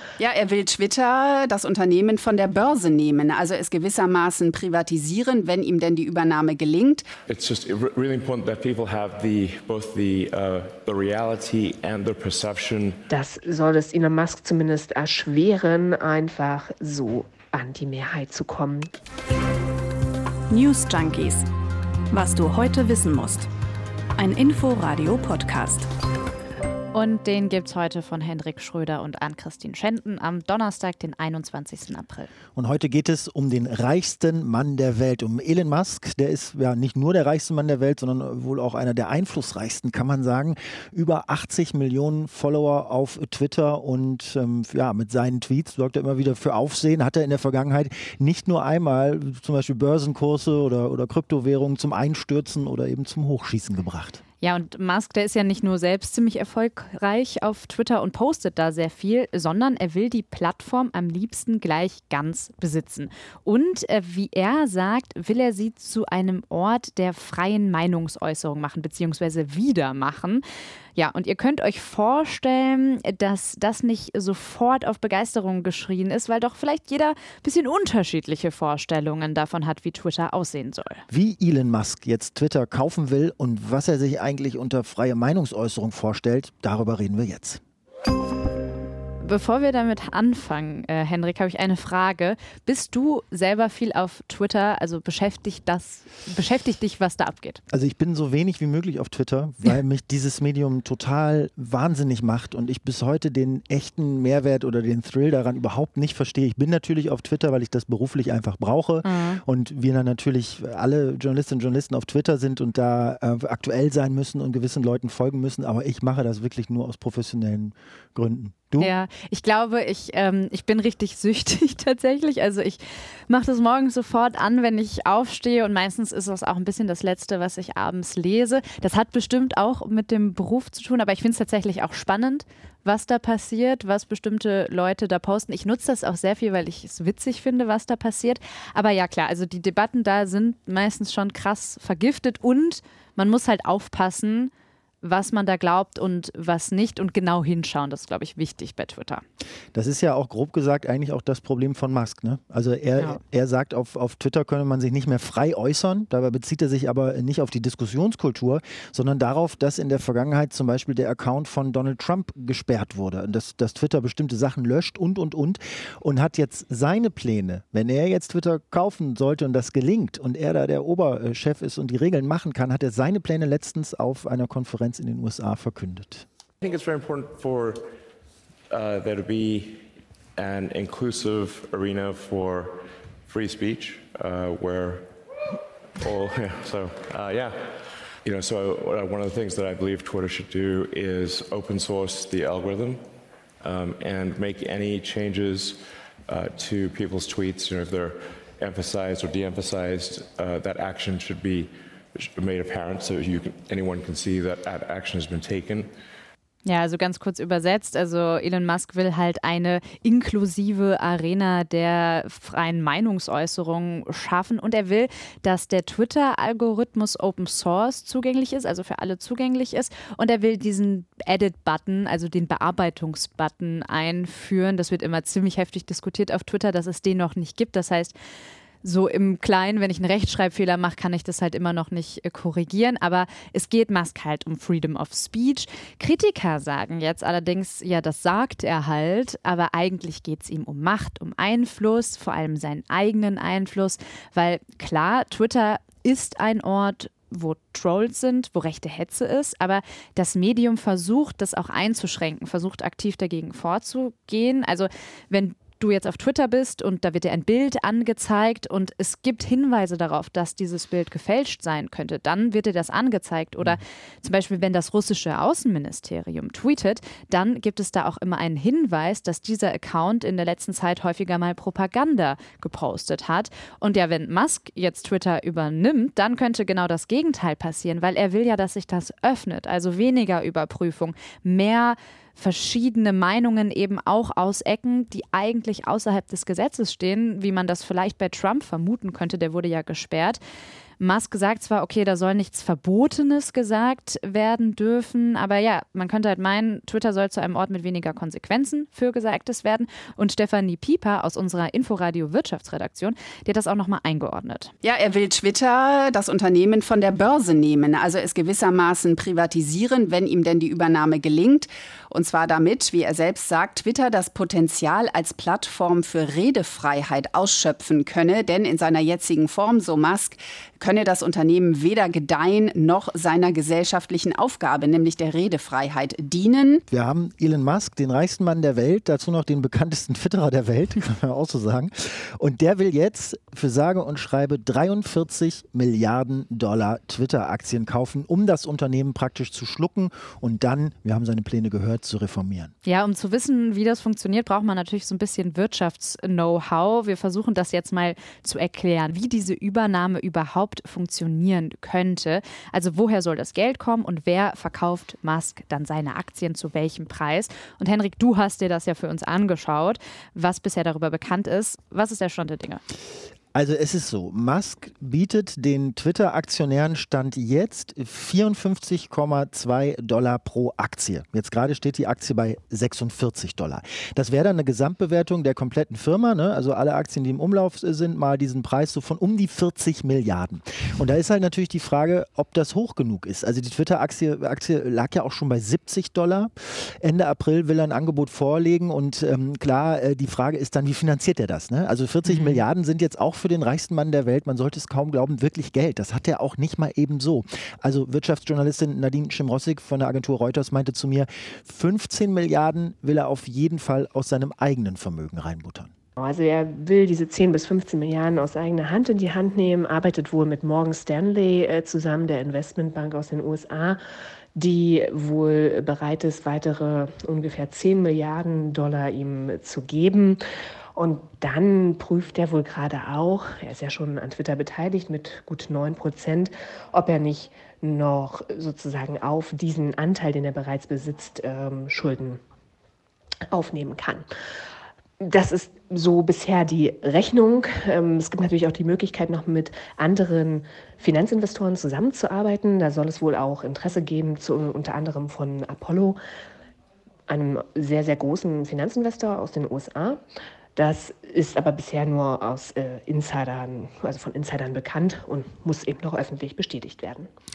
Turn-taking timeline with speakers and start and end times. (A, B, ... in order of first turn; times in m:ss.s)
0:00.2-0:07.1 A
0:07.3-0:13.0 B
0:13.1-0:18.9 C
0:20.5-0:21.5 D
0:22.1-0:23.5 D
0:24.2-0:25.9 D
0:26.9-0:32.3 E
0:32.5-0:54.2 F
0:54.4-1:10.4 E
1:11.0-1:21.0 E
1:21.1-1:27.6 F
1:29.2-1:37.6 E
1:37.7-1:58.9 F
1:49.0-1:49.4 E
1:58.8-2:29.2 E
2:29.7-2:56.2 F
2:56.6-2:57.8 B
2:58.7-2:59.8 B
3:00.4-3:05.0 B
3:06.0-3:07.6 B
3:08.2-3:13.0 B
3:13.6-3:25.9 B
3:26.6-3:48.1 E
3:48.8-4:50.4 E
4:51.0-5:04.7 E
5:04.8-5:26.8 A
5:26.9-5:42.7 F
5:42.8-6:02.8 E
6:03.5-6:45.9 F
6:32.2-6:32.6 E
6:46.2-6:54.0 C
6:54.6-7:00.4 C
7:01.0-7:12.4 C
7:13.5-7:14.2 C
7:15.2-7:26.2 C
7:27.3-7:30.2 C
7:30.8-7:37.3 C